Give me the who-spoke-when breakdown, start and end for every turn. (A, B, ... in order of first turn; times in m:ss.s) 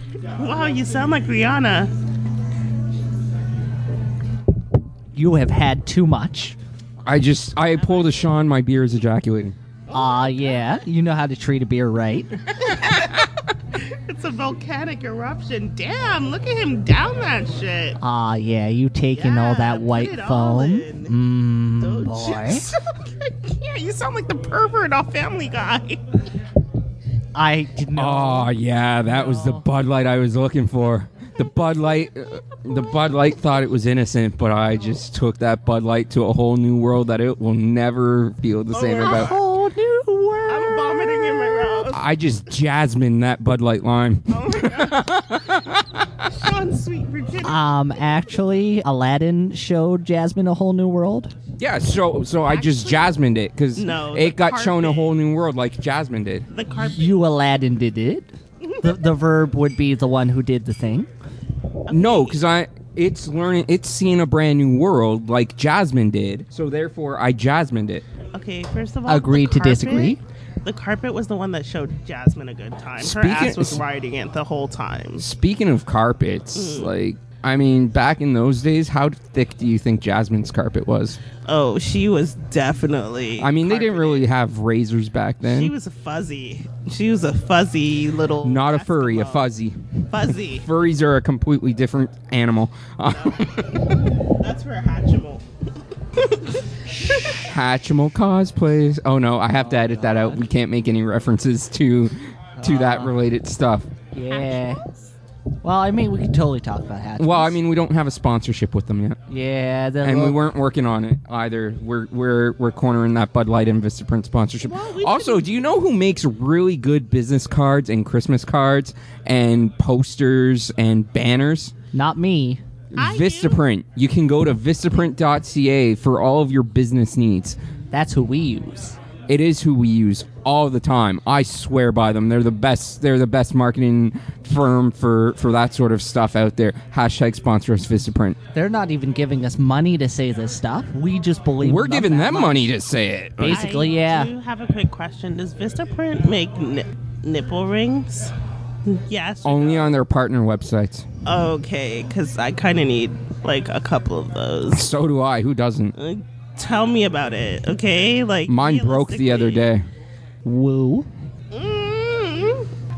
0:00.4-0:01.9 A
0:05.1-0:06.6 B
0:07.0-0:09.6 C
0:09.9-0:10.7 A
0:09.9-0:12.4 B
0:12.6-0:18.0 A
0:18.0-0:22.7 B
0:19.1-0:21.1 A
0:21.8-0:26.0 A
0:27.3-0:28.5 B
0:28.0-0:39.3 C
0:29.1-0:29.6 B
0:38.7-0:39.4 A
0:39.0-0:41.6 B
0:40.5-0:42.0 A
0:41.9-0:46.0 C
0:44.3-0:45.2 A
0:46.2-0:47.7 A
0:47.4-0:51.3 B
0:51.6-0:56.4 C
0:52.5-0:53.1 A
0:53.8-0:55.1 A
0:56.5-0:57.2 A
0:56.8-1:01.1 B
1:01.9-1:02.4 A
1:01.9-1:08.0 C
1:08.3-1:15.2 A
1:09.1-1:10.2 B
1:13.0-1:13.8 C
1:15.2-1:21.2 C
1:16.6-1:16.9 A
1:21.5-1:24.3 A
1:23.4-1:25.8 C
1:25.4-1:29.5 A
1:28.4-1:29.8 C
1:30.1-1:30.7 A
1:30.6-1:33.8 C
1:33.1-1:35.4 A
1:36.2-1:36.6 A
1:37.1-1:37.4 A
1:37.3-1:43.9 C
1:39.6-1:40.4 B
1:42.6-1:43.1 B
1:44.1-1:44.8 B
1:44.3-1:45.0 A
1:45.6-1:47.6 B
1:47.2-1:49.2 C
1:49.3-1:50.4 B
1:50.0-2:01.7 C
1:54.6-1:55.5 A
2:01.9-2:02.6 B
2:02.9-2:07.6 C
2:03.0-2:03.6 A
2:07.9-2:09.0 B
2:09.3-2:18.4 C
2:18.5-2:22.7 B
2:21.6-2:23.7 C
2:23.4-2:24.3 B
2:23.5-2:28.3 A
2:28.9-2:29.9 A
2:29.4-2:31.1 C
2:31.2-2:34.9 A
2:34.7-2:36.0 C
2:36.0-2:39.7 A
2:38.5-2:39.9 C
2:40.4-2:41.1 B
2:41.5-2:42.7 A